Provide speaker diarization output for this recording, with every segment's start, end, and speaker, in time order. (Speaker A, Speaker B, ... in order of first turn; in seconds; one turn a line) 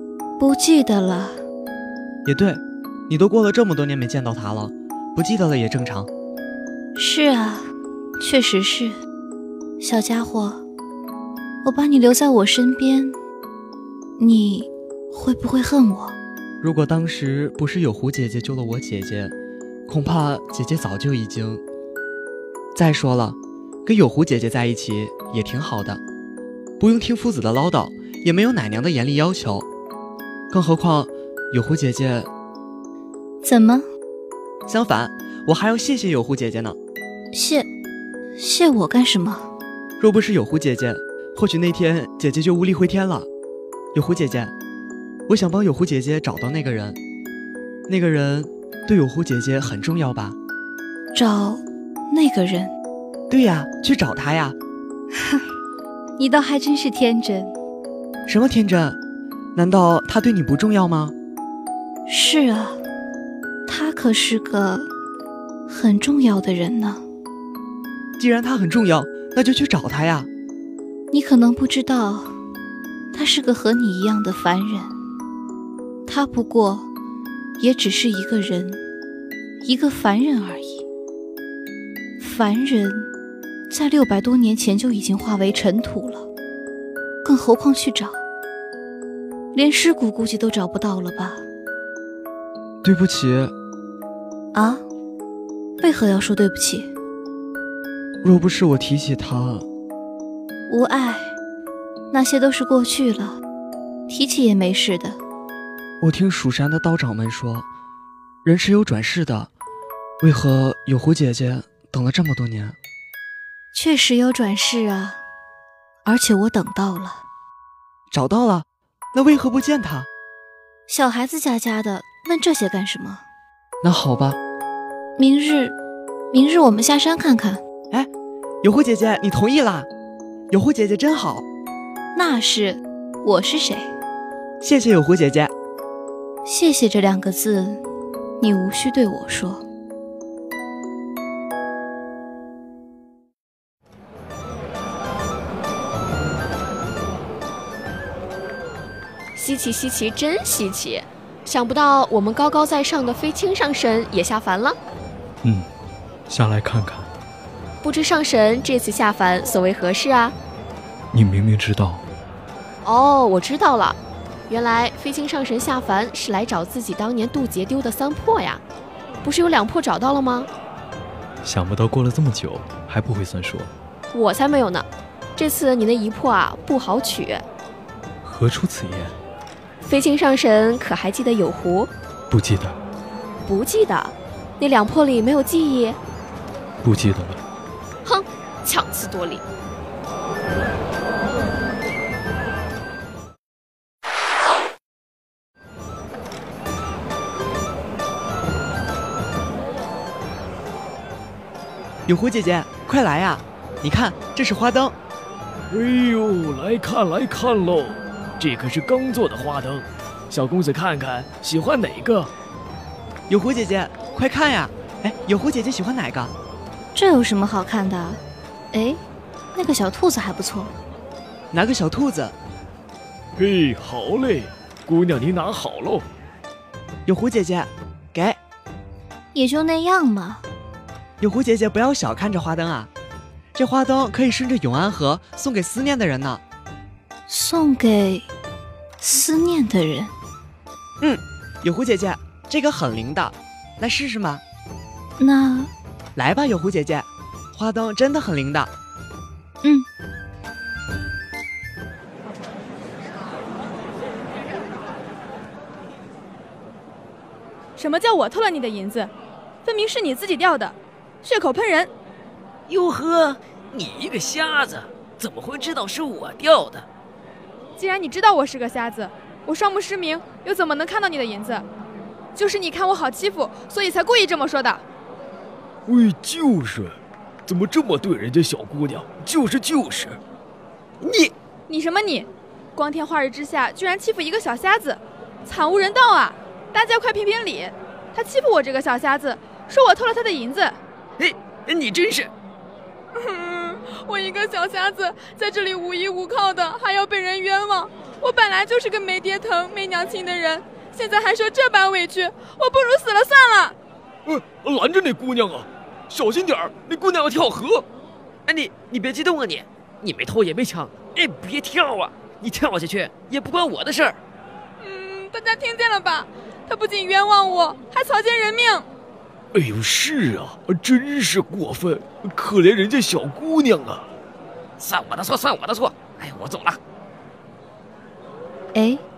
Speaker A: 0.4-1.4
Speaker B: 2.3-6.1
Speaker A: 7.0-7.7
Speaker A: 8.2-8.9
Speaker A: 9.8-10.6
Speaker A: 11.7-13.2
Speaker A: 14.2-16.1
Speaker B: 16.6-19.3
Speaker B: 19.9-21.6
Speaker B: 22.8-26.0
Speaker B: 26.8-29.7
Speaker B: 30.5-32.3
Speaker A: 33.5-33.8
Speaker B: 34.7-36.8
Speaker A: 37.3-37.6
Speaker A: 38.4-39.4
Speaker B: 40.0-43.3
Speaker B: 43.9-44.5
Speaker B: 45.3-47.0
Speaker B: 47.9-50.4
Speaker A: 51.1-51.6
Speaker A: 52.1-52.7
Speaker B: 53.3-54.6
Speaker A: 56.2-57.5
Speaker B: 58.3-59.0
Speaker B: 59.6-61.1
Speaker A: 62.1-62.8
Speaker A: 63.7-64.9
Speaker A: 65.7-67.0
Speaker B: 68.2-70.3
Speaker A: 71.1-72.3
Speaker A: 73.1-74.9
Speaker A: 76.1-76.9
Speaker A: 77.6-78.8
Speaker A: 79.7-80.8
Speaker A: 82.2-83.1
Speaker A: 83.7-86.2
Speaker A: 87.2-88.1
Speaker A: 89.5-91.4
Speaker B: 92.8-93.5
Speaker A: 94.5-94.8
Speaker A: 95.8-96.9
Speaker B: 98.2-99.7
Speaker A: 100.7-101.2
Speaker A: 102.1-103.4
Speaker A: 104.1-105.2
Speaker B: 106.0-107.7
Speaker B: 108.5-109.5
Speaker B: 110.2-112.8
Speaker A: 113.8-115.2
Speaker A: 116.1-117.2
Speaker B: 118.1-120.1
Speaker A: 120.9-123.2
Speaker B: 123.8-124.4
Speaker A: 125.2-125.7
Speaker A: 126.3-127.6
Speaker B: 128.6-129.9
Speaker B: 130.5-131.5
Speaker A: 132.2-133.8
Speaker B: 134.6-135.5
Speaker A: 136.5-137.8
Speaker A: 138.4-139.6
Speaker C: 149.3-154.8
Speaker D: 156.3-157.1
Speaker C: 157.8-160.4
Speaker D: 161.1-162.0
Speaker C: 162.8-168.6
Speaker C: 169.2-170.5
Speaker D: 171.4-173.7
Speaker C: 174.1-177.4
Speaker D: 178.2-179.2
Speaker C: 179.8-181.9
Speaker D: 182.3-182.8
Speaker C: 183.5-186.0
Speaker D: 186.8-187.4
Speaker C: 188.1-189.4
Speaker B: 202.1-205.0
Speaker E: 205.7-212.3
Speaker B: 213.3-216.3
Speaker A: 217.0-218.2
Speaker A: 219.6-220.7
Speaker B: 221.5-222.4
Speaker E: 223.4-226.1
Speaker B: 227.1-228.4
Speaker A: 229.3-230.4
Speaker B: 231.2-232.9
Speaker B: 233.6-236.4
Speaker A: 237.3-238.2
Speaker A: 239.0-240.1
Speaker B: 241.0-244.4
Speaker A: 245.2-245.7
Speaker B: 246.2-248.7
Speaker F: 257.8-259.1
Speaker F: 259.6-261.9
Speaker G: 262.7-266.9
Speaker F: 267.8-271.6
Speaker F: 272.4-274.8
Speaker E: 275.9-280.2
Speaker G: 281.0-281.3
Speaker F: 281.7-290.8
Speaker G: 291.2-292.3
Speaker F: 293.1-303.8
Speaker E: 304.3-307.9
Speaker G: 308.5-314.2
Speaker F: 314.8-318.9
Speaker E: 319.5-324.1
Speaker G: 324.8-326.8